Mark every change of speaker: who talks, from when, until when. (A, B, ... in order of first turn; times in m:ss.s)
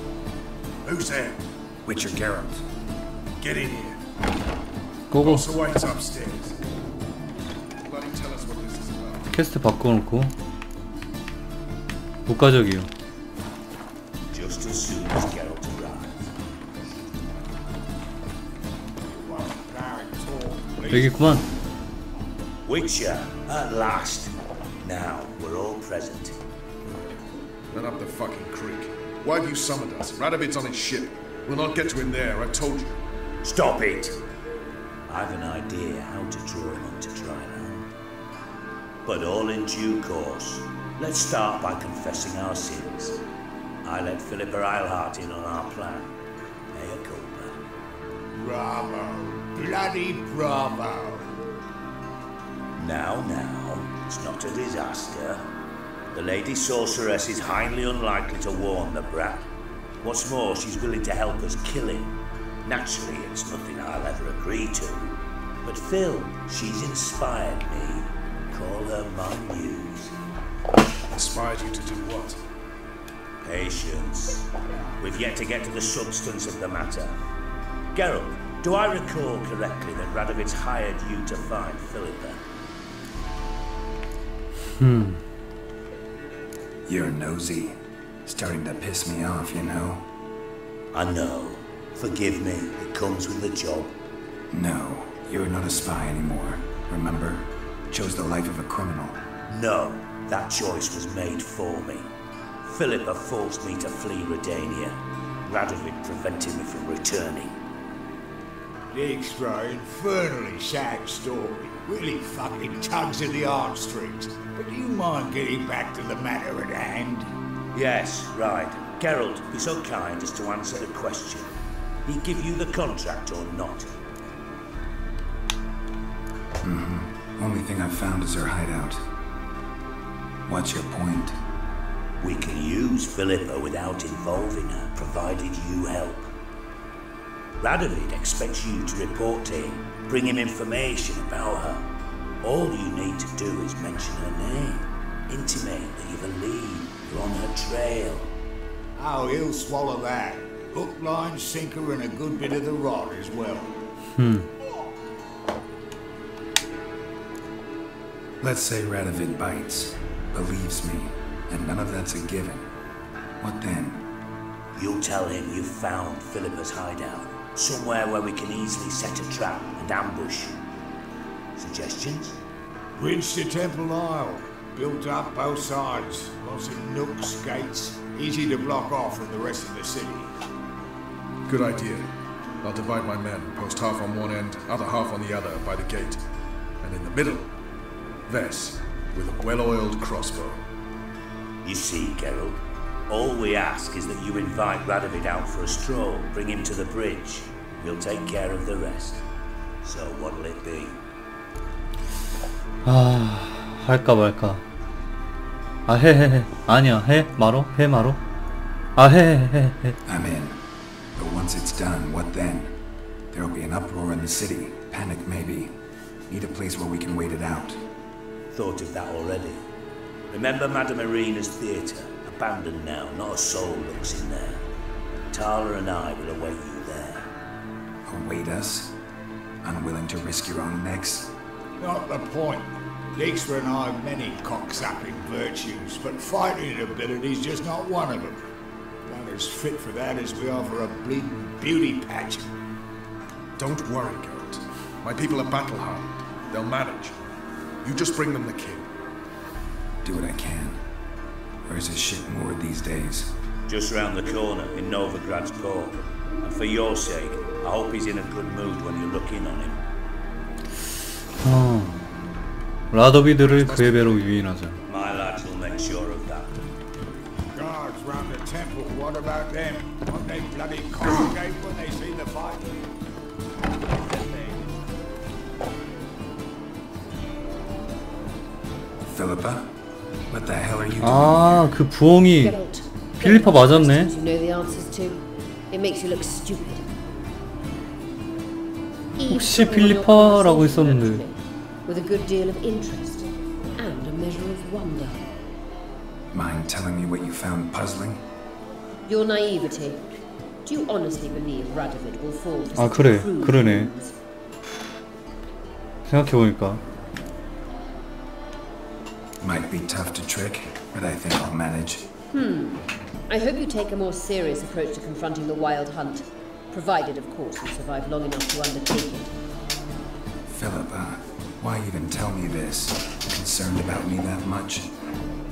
0:00.8-0:01.4 A
0:01.8-0:02.6 B
0:03.4-0:04.0 A
0:05.1-0:05.5 C
0:05.2-0:06.6 A
0:07.8-0:09.3 A
0:09.3-0:10.3 C
0:12.3-0:12.9 C
0:14.3-0:16.3 D
0:19.0-0:21.2 E
0:20.9-0:21.5 C
0:22.7-0:26.4 D
0:27.7-0:33.0 A
0:33.4-0:34.2 D
0:35.1-0:37.8 D
0:39.0-0:43.2 D
0:43.8-0:46.2 D
0:46.7-0:47.6 D
0:48.3-0:51.4 E
0:52.8-0:55.5 D
0:56.1-0:59.5 D
1:00.0-1:02.1 D
1:02.6-1:10.2 D
1:11.1-1:12.4 A
1:13.4-1:14.5 D
1:15.0-1:17.2 D
1:17.9-1:22.4 D
1:24.7-1:25.2 C
1:26.9-1:30.1 B
1:30.9-1:34.0 D
1:34.5-1:39.2 B
1:39.5-1:42.1 D
1:42.6-1:47.6 D
1:48.9-1:57.3 E
1:57.7-2:01.5 D
2:02.1-2:03.9 D
2:06.6-2:09.0 B
2:10.5-2:11.4 B
2:12.2-2:16.3 D
2:17.6-2:21.9 D
2:22.4-2:28.3 D
2:29.0-2:33.7 E
2:34.2-2:34.5 C
2:38.4-2:42.7 B
2:43.4-2:44.1 B
2:44.8-2:50.6 D
2:51.6-2:52.4 D
2:53.0-3:00.3 E
3:01.5-3:02.1 A
3:02.6-3:06.2 A
3:06.8-3:07.5 A
3:08.3-3:10.6 A
3:11.6-3:19.2 D
3:19.8-3:21.0 D
3:22.8-3:24.6 C
3:25.9-3:28.2 C
3:29.0-3:30.0 C
3:30.1-3:30.6 B
3:31.2-3:32.8 B
3:33.3-3:35.8 B
3:36.3-3:37.8 B
3:38.5-3:39.6 D
3:40.3-3:44.6 D
3:45.3-3:47.3 D
3:48.1-3:48.9 B
3:49.6-3:51.3 B
3:51.8-3:58.5 E
3:59.1-4:02.5 E
4:03.6-4:07.2 A
4:07.8-4:08.9 A
4:10.0-4:10.8 B
4:11.6-4:13.3 B
4:13.7-4:19.8 D
4:21.4-4:22.0 C
4:22.9-4:24.8 C
4:23.5-4:24.2 A
4:24.9-4:26.5 D
4:27.5-4:32.9 E
4:34.2-4:34.5 E
4:39.0-4:39.7 B
4:40.3-4:41.7 B
4:41.0-4:42.6 C
4:42.3-4:46.9 F
4:43.2-4:44.1 C
4:49.2-4:55.3 F
4:49.3-4:51.2 C
4:56.3-4:58.2 B
4:59.1-5:00.1 F
5:00.6-5:04.2 F
5:02.8-5:03.9 C
5:06.1-5:06.8 C
5:09.4-5:12.1 B
5:12.3-5:19.4 F
5:20.5-5:24.9 B